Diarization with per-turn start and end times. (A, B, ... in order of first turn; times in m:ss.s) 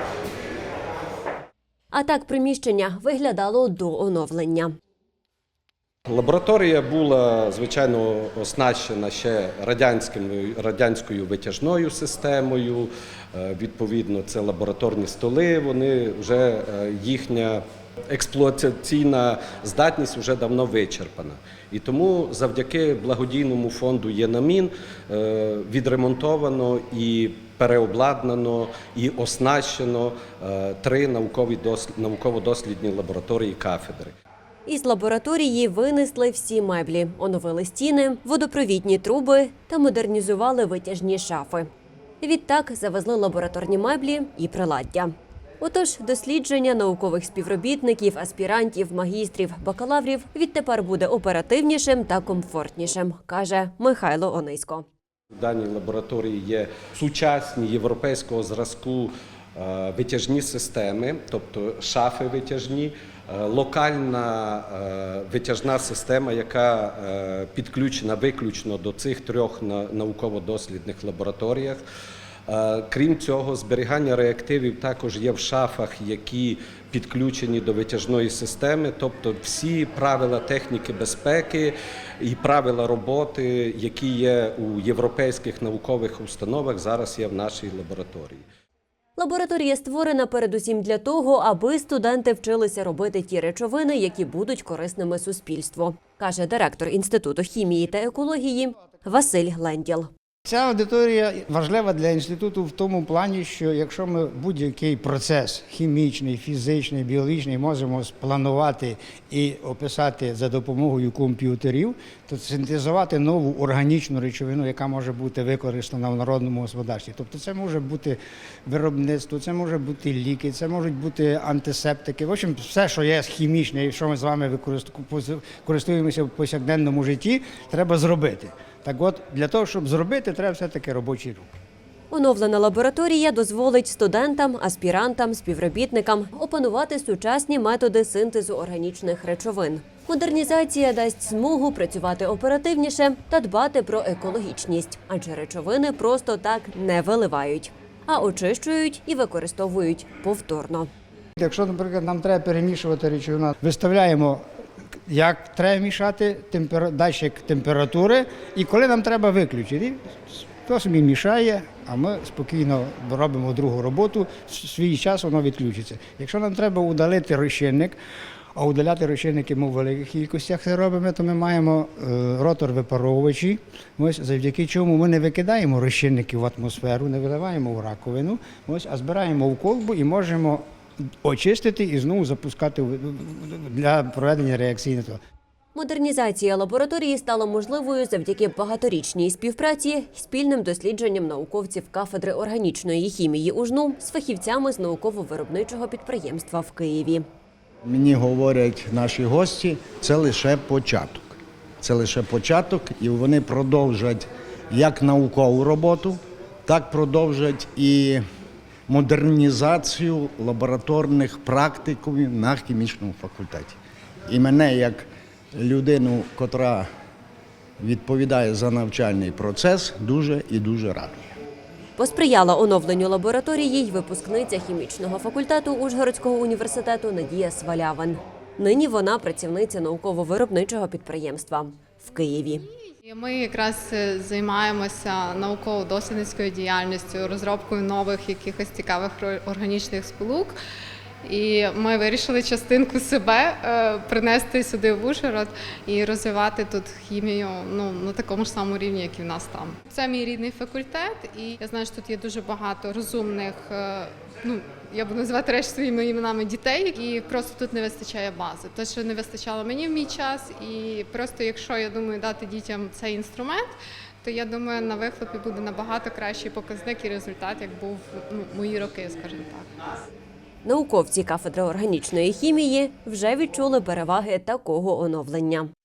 0:01.9-0:04.7 A
0:06.1-0:34.1 B
0:34.6-0:41.7 A
0:42.2-0:54.9 A
0:55.3-1:11.8 B
1:12.5-1:28.4 B
1:29.2-1:40.1 A
1:40.4-2:11.5 C
2:12.1-2:30.9 A
2:31.4-2:34.4 C
2:35.1-2:48.0 C
2:48.5-3:00.6 C
3:01.2-3:05.2 C
3:05.7-3:17.2 A
3:17.8-3:28.2 D
3:28.9-3:36.9 D
3:37.8-3:41.4 D
3:42.0-3:52.6 A
3:53.0-4:00.6 E
4:01.2-4:29.7 E
4:30.6-4:35.7 A